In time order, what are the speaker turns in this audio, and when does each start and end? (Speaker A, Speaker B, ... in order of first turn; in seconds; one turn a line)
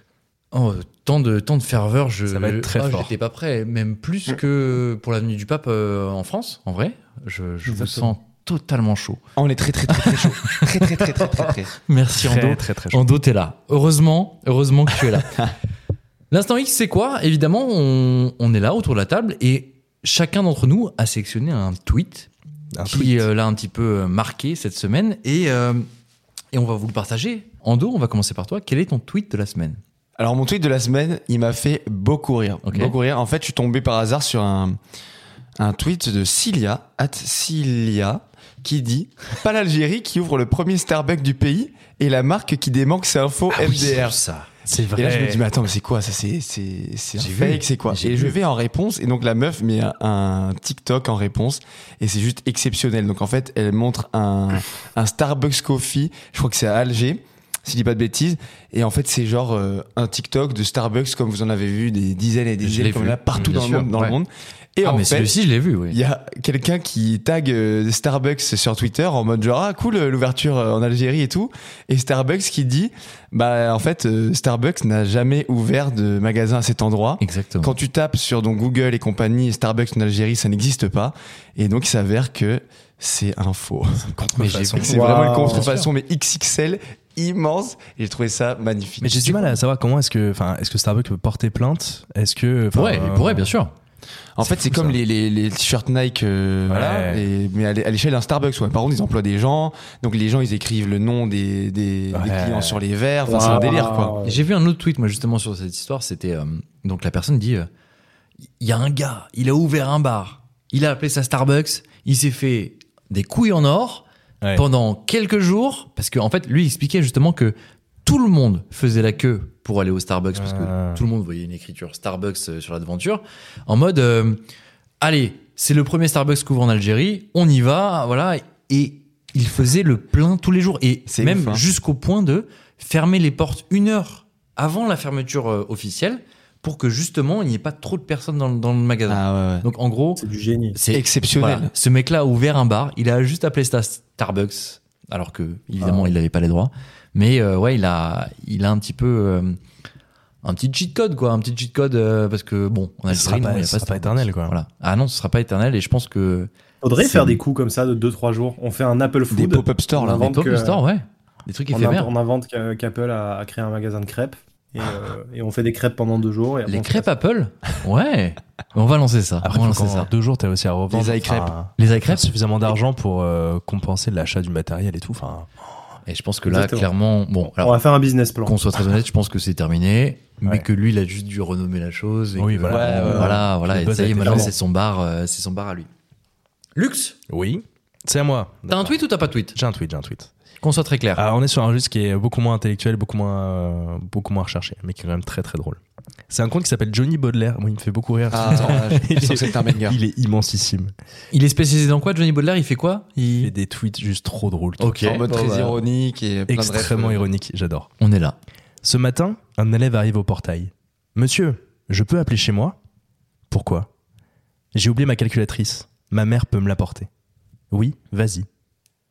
Speaker A: 0.5-9.2
Speaker B: 2.3-3.1
Speaker C: 7.7-8.1
Speaker D: 9.4-11.8
Speaker A: 10.0-11.0
Speaker A: 11.9-15.4
Speaker B: 12.2-13.0
Speaker A: 16.3-22.3
Speaker B: 22.8-23.3
Speaker A: 22.9-25.9
Speaker A: 26.5-29.8
Speaker D: 30.2-34.8
Speaker A: 32.6-33.0
Speaker D: 35.6-44.2
Speaker A: 43.5-44.5
Speaker B: 44.6-45.4
Speaker D: 44.9-65.3
Speaker A: 47.2-48.3
Speaker A: 62.6-64.2
Speaker A: 64.8-66.0
Speaker D: 65.9-89.6
Speaker A: 77.2-77.8
Speaker A: 84.4-85.7
Speaker B: 84.4-85.8
Speaker C: 84.8-85.7
Speaker B: 89.0-93.5
Speaker A: 92.7-93.7
Speaker D: 94.4-104.2
Speaker B: 94.4-95.0
Speaker B: 96.7-97.3
Speaker B: 102.1-102.8
Speaker C: 103.3-104.4
Speaker A: 104.2-107.7
Speaker A: 108.6-124.4
Speaker B: 120.3-121.0
Speaker A: 125.0-140.2
Speaker D: 131.1-131.7
Speaker D: 139.1-139.7
Speaker C: 140.2-140.8
Speaker A: 140.8-149.6
Speaker D: 140.9-141.7
Speaker C: 145.8-146.2
Speaker A: 150.4-156.5
Speaker B: 153.1-154.6
Speaker C: 156.8-160.8
Speaker D: 157.0-157.3
Speaker D: 159.3-160.3
Speaker A: 160.2-162.1
Speaker C: 161.7-167.1
Speaker A: 166.7-170.1
Speaker B: 169.4-175.5
Speaker D: 170.9-171.5
Speaker A: 171.8-172.3
Speaker A: 176.1-177.8
Speaker C: 176.5-176.9
Speaker C: 177.6-178.6
Speaker A: 178.4-185.9
Speaker B: 182.4-184.5
Speaker D: 182.7-183.4
Speaker C: 184.2-184.5
Speaker A: 186.8-187.2
Speaker B: 187.3-189.0
Speaker A: 188.7-189.6
Speaker B: 189.5-190.3
Speaker A: 190.6-191.2
Speaker B: 191.2-200.9
Speaker D: 198.3-200.0
Speaker A: 201.3-203.5
Speaker B: 203.4-204.9
Speaker A: 204.8-205.8
Speaker D: 205.0-207.3
Speaker B: 206.5-207.9
Speaker A: 208.0-208.4
Speaker B: 208.8-212.8
Speaker B: 213.5-213.9
Speaker B: 214.7-217.1
Speaker B: 217.7-218.5